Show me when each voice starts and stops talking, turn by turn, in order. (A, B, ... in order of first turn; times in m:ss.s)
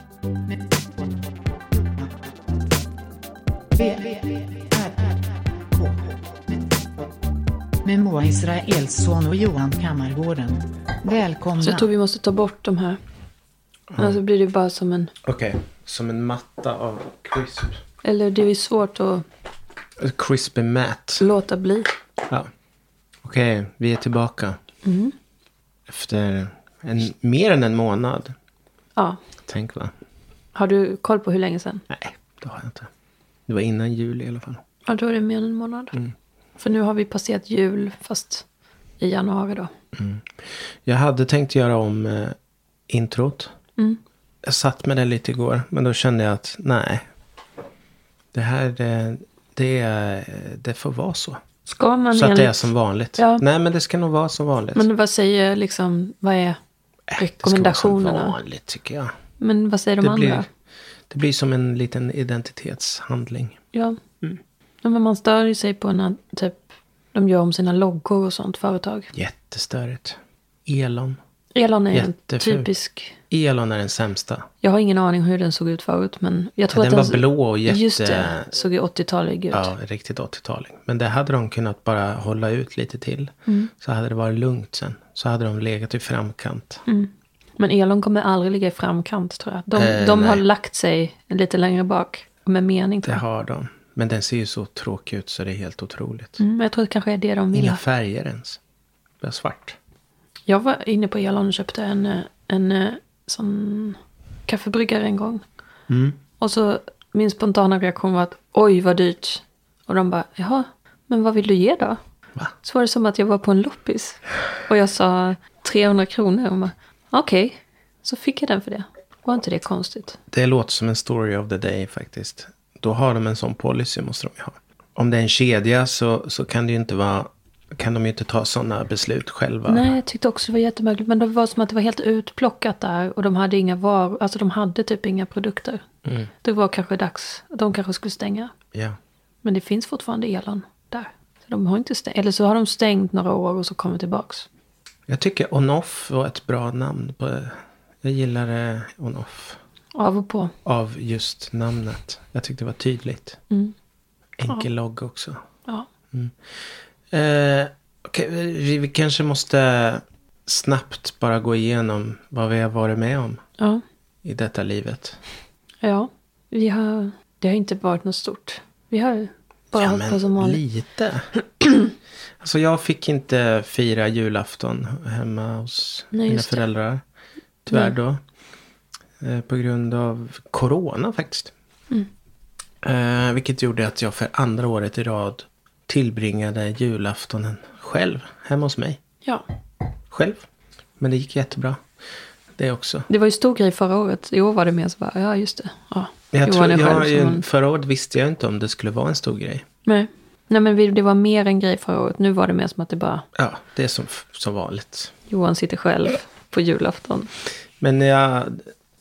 0:03.8-0:06.2 A
0:07.8-0:11.9 A
0:11.6-0:13.0 B
0:13.9-0:14.2 C
0:14.0-0:15.1 B
0:15.2-0:17.8 C
0:18.0-0:19.3 B
0:20.0-0:21.2 C
0:21.2-0:21.9 B
0:23.2-0:24.6 C
0:24.8-0:25.2 B
0:25.9-0:28.4 C
0:29.5-0:29.9 C
0:30.6-0:31.8 B
0:31.9-0:32.9 C
0:33.5-0:34.6 C
0:34.9-0:36.0 B
0:36.6-0:38.4 B
0:39.0-0:39.7 B
0:40.0-0:42.4 C
0:42.9-0:43.5 C
0:44.4-0:47.0 C
0:48.3-0:51.4 C
0:51.7-0:53.4 B
0:52.1-0:54.9 C
0:54.8-0:56.6 B
0:57.1-0:59.1 C
0:57.2-0:58.4 B
0:59.4-1:00.5 B
1:00.0-1:00.4 C
1:01.1-1:03.6 C
1:03.7-1:04.0 B
1:04.8-1:09.1 B
1:09.1-1:11.2 C
1:11.5-1:13.2 B
1:11.9-1:12.7 C
1:13.3-1:14.5 C
1:14.6-1:19.7 B
1:16.7-1:18.5 C
1:19.5-1:26.8 C
1:23.5-1:23.7 B
1:26.9-1:33.2 B
1:29.7-1:30.4 C
1:33.0-1:36.4 C
1:36.4-1:37.8 B
1:37.5-1:38.6 C
1:39.2-1:39.8 C
1:40.5-1:45.4 B
1:45.9-1:46.2 C
1:46.4-1:52.0 B
1:52.6-2:00.2 B
2:00.3-2:09.9 C
2:09.7-2:15.8 B
2:16.4-2:18.5 B
2:19.4-2:24.5 B
2:25.1-2:29.6 C
2:30.0-2:30.5 B
2:30.6-2:33.4 C
2:34.4-2:35.4 C
2:36.1-2:36.4 C
2:37.1-2:43.4 C
2:44.2-2:45.2 C
2:45.8-2:50.6 B
2:49.7-2:51.3 C
2:52.4-2:57.0 C
2:56.1-2:56.6 B
2:57.6-2:58.2 C
2:59.2-3:01.5 C
3:02.8-3:09.0 C
3:10.1-3:10.5 C
3:11.0-3:11.8 C
3:12.6-3:13.1 C
3:13.1-3:17.4 B
3:16.3-3:19.7 C
3:19.8-3:23.2 B
3:23.4-3:25.1 C
3:25.3-3:27.3 B
3:27.8-3:28.6 C